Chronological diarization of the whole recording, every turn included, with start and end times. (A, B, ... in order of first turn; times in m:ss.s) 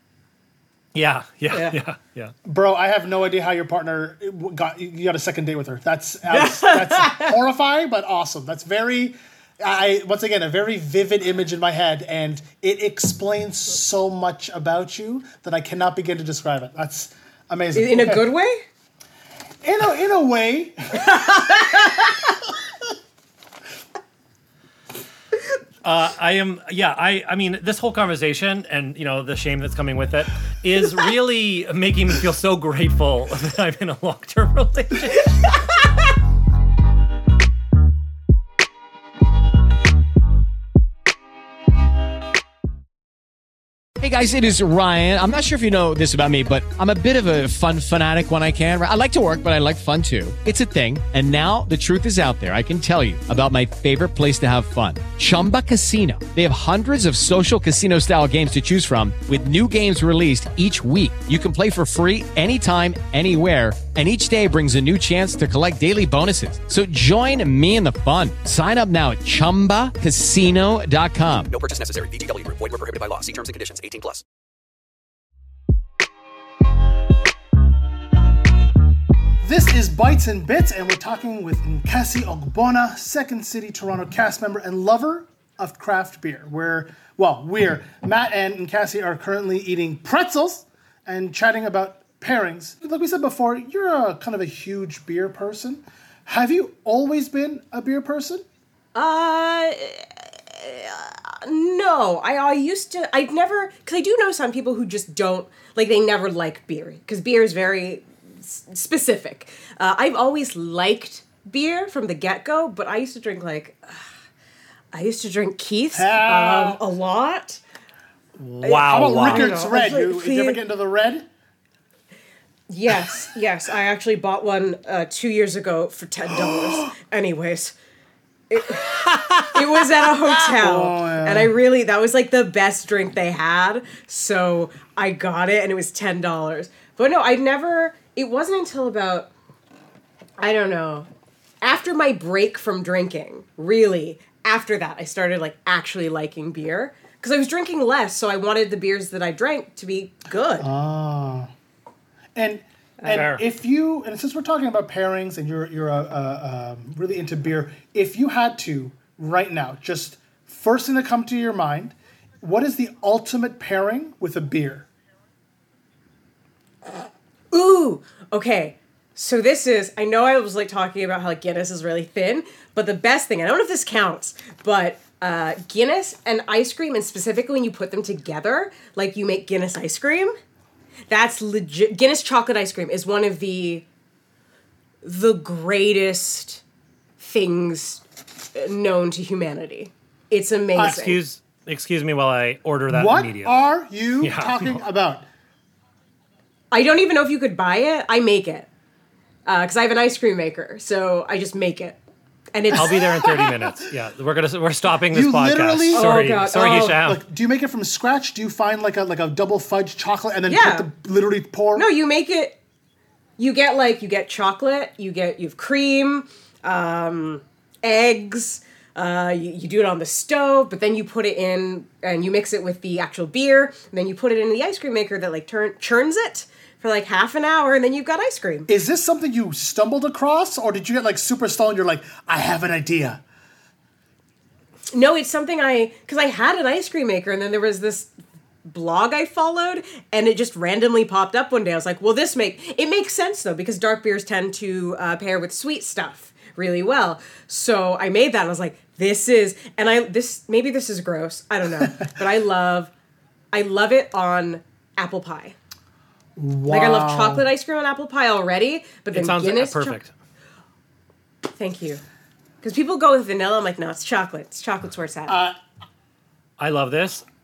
0:00.9-0:02.3 A
0:01.5-0:01.8 B
0:02.4-0:18.3 C
0:06.3-0:07.3 B
0:17.7-0:18.6 B
0:19.6-0:21.4 C
0:21.0-0:22.2 B
0:25.8-0:35.6 A
0:44.0-1:11.5 D
1:11.5-1:14.2 E
1:19.4-1:38.4 C
1:38.9-1:54.0 B
1:54.9-1:57.6 B
1:55.9-1:56.8 C
1:58.4-1:59.5 A
1:58.6-2:00.6 B
1:58.6-2:01.3 C
2:02.7-2:07.7 B
2:08.5-2:19.3 B
2:09.0-2:09.6 A
2:10.5-2:11.5 C
2:20.4-2:21.1 B
2:21.6-2:30.7 B
2:30.6-2:31.5 C
2:32.3-2:44.9 C
2:33.1-2:33.4 A
2:47.5-3:00.4 B
3:01.1-3:03.9 B
3:05.0-3:06.6 B
3:07.2-3:11.2 B
3:10.8-3:14.8 A
3:12.9-3:15.3 C
3:16.7-3:18.7 B
3:19.4-3:22.0 B
3:22.5-3:23.0 B
3:22.7-3:27.2 A
3:22.8-3:23.7 C
3:25.1-3:31.9 C
3:25.9-3:27.0 B
3:30.5-3:30.9 B
3:31.7-3:32.6 B
3:33.4-3:48.7 B
3:48.7-3:53.2 C
3:54.9-3:58.1 B
3:58.6-4:12.9 B
4:13.5-4:15.6 B
4:16.4-4:17.5 C
4:16.7-4:20.0 B
4:19.1-4:20.1 A
4:21.5-4:22.0 B
4:22.6-4:25.4 B
4:25.3-4:25.6 C
4:26.6-4:27.2 A